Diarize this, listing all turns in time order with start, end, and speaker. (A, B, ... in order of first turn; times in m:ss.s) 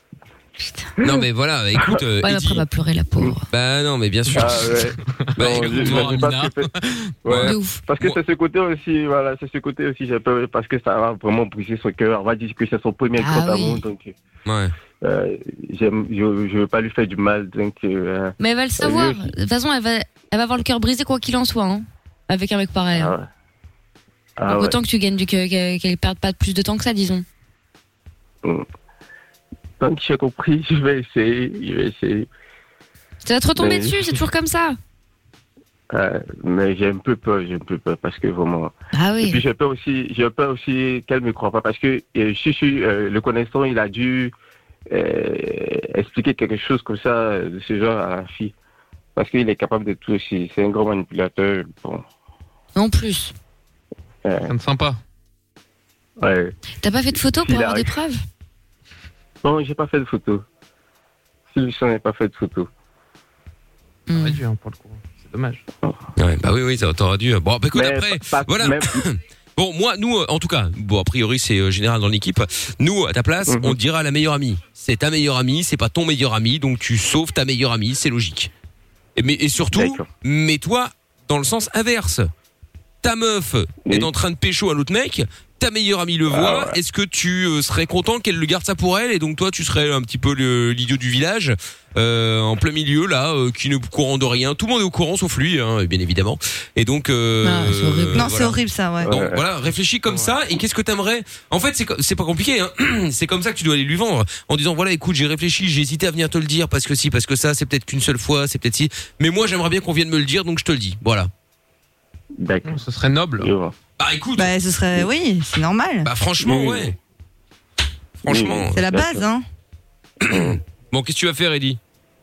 0:00.6-0:00.9 A
0:01.0-0:02.6 B
0:02.2-0:03.5 A
0:03.5-0:04.8 B
0:04.3-0:07.3 C
0:04.4-0:06.7 D
0:05.4-0:06.2 B
0:07.2-0:14.2 D
0:07.3-0:08.2 B
0:07.4-0:07.8 A
0:13.2-0:13.8 A
0:14.5-0:14.7 B
0:15.0-0:19.3 D
0:18.4-0:23.1 A
0:22.9-0:23.3 D
0:24.4-0:24.8 D
0:24.5-0:27.2 A
0:29.8-0:32.3 D
0:33.2-0:34.8 A
0:33.6-0:34.2 D
0:35.9-0:44.3 D
0:38.9-0:39.4 A
0:44.9-0:48.5 D
0:49.2-0:52.0 D
0:52.8-0:53.3 A
0:54.2-0:54.5 D
0:54.5-0:55.0 C
0:56.2-0:56.5 D
0:56.8-0:58.2 A
0:57.3-0:58.0 D
0:59.4-1:00.4 D
1:01.5-1:02.7 D
1:04.1-1:04.4 A
1:04.1-1:05.6 C
1:06.2-1:18.5 B
1:07.7-1:09.0 D
1:13.4-1:13.8 D
1:19.2-1:22.3 B
1:19.7-1:20.1 D
1:23.0-1:51.3 B
1:23.8-1:24.1 D
1:26.3-1:26.8 D
1:37.4-1:38.3 A
1:38.2-1:39.2 E
1:39.0-1:39.4 D
1:52.4-1:52.8 D
1:52.6-1:53.5 C
1:53.4-1:53.7 D
1:54.0-1:54.6 B
1:54.4-1:56.1 E
1:56.0-1:57.0 B
1:56.4-1:56.9 D
1:58.2-1:58.8 B
1:58.3-1:59.2 D
1:58.7-1:59.4 E
2:00.2-2:00.6 D
2:00.3-2:01.8 B